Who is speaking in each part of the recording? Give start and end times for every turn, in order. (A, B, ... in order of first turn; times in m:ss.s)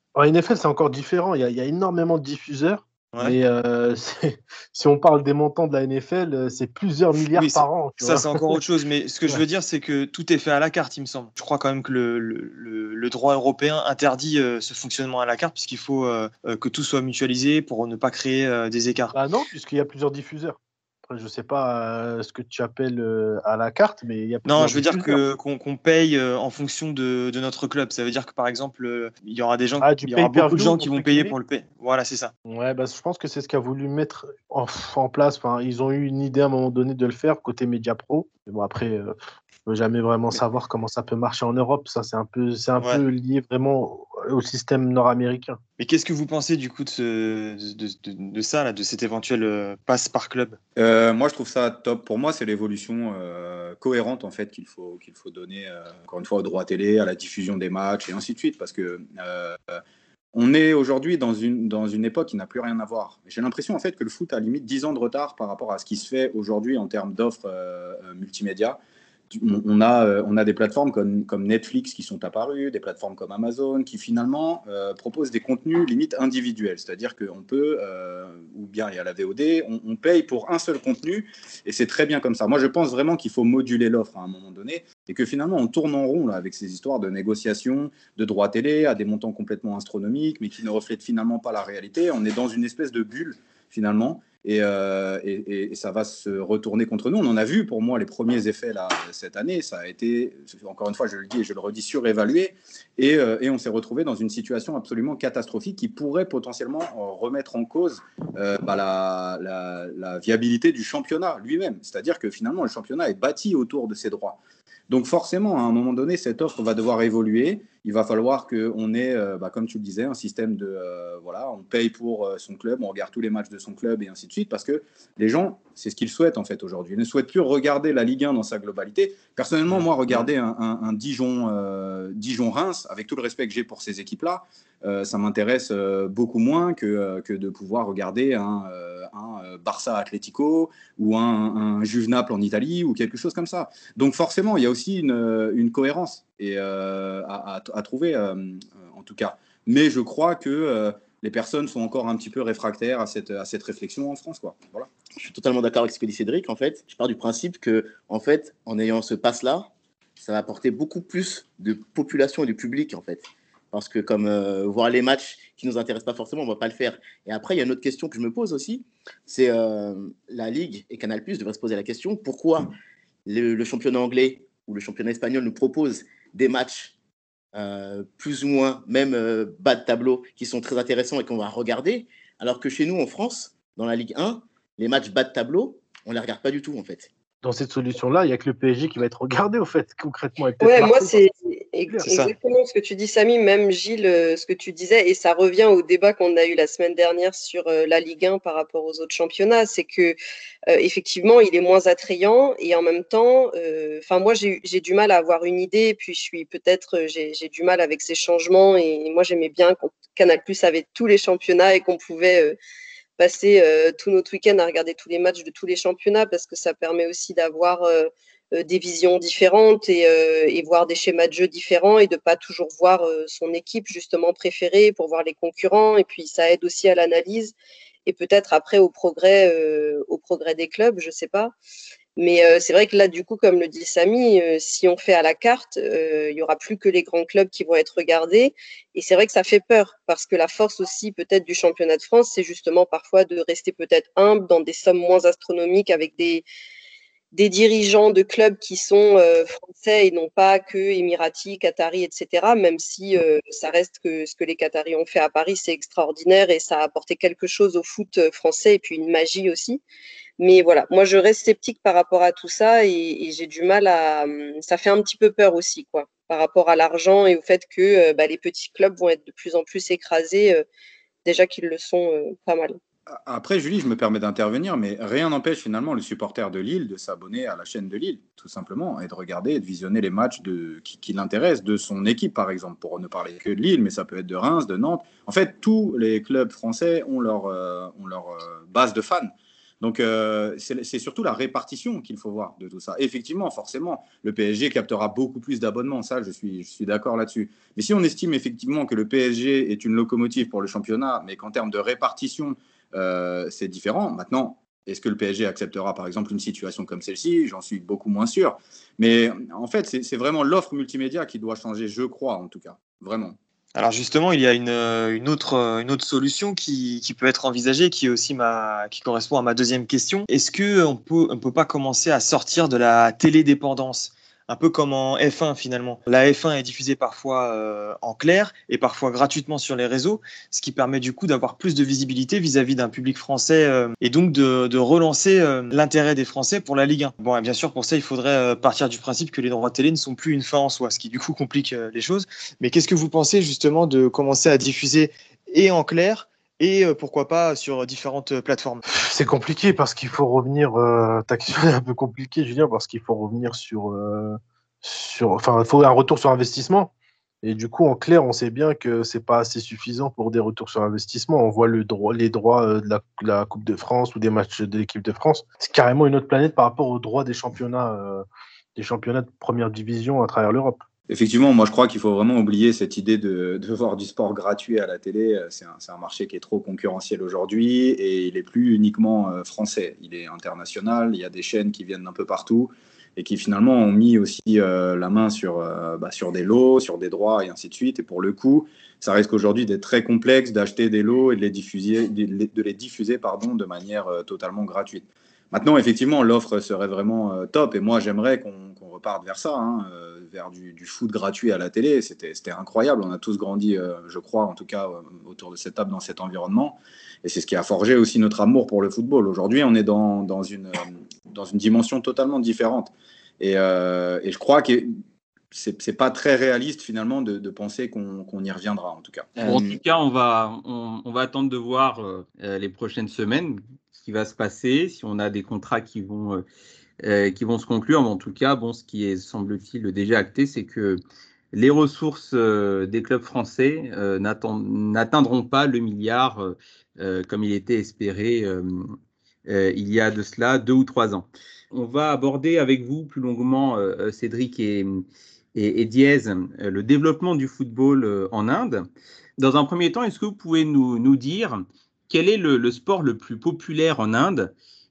0:00.2-0:08.6 A
0:03.1-0:03.4 B
0:07.3-0:19.2 B
0:19.1-0:25.2 A
0:24.4-0:32.3 B
0:29.8-0:31.4 A
0:32.4-0:39.1 A
0:39.7-0:45.6 A
0:45.8-0:50.6 B
0:50.8-0:59.8 C
1:00.3-1:08.8 C
1:09.3-2:34.9 C
2:35.2-2:52.7 D
2:53.2-2:56.9 D
2:57.5-3:07.1 D
3:07.4-3:11.2 A
3:10.6-3:20.2 E
3:12.0-3:12.3 B
3:20.7-3:32.6 E
3:33.2-3:47.5 E
3:48.0-3:51.5 E
3:52.2-4:06.4 E
4:07.3-4:19.8 E
4:20.4-4:30.6 E
4:31.2-4:32.8 E
4:33.1-5:13.4 C
5:13.7-5:48.8 B
5:48.9-5:56.9 A
5:57.4-6:10.8 A
6:11.1-6:54.9 C
6:55.5-6:59.4 C
6:59.4-6:59.8 D
6:59.4-7:06.4 F
7:07.0-7:11.0 F
7:11.5-7:18.9 F
7:19.5-7:34.5 F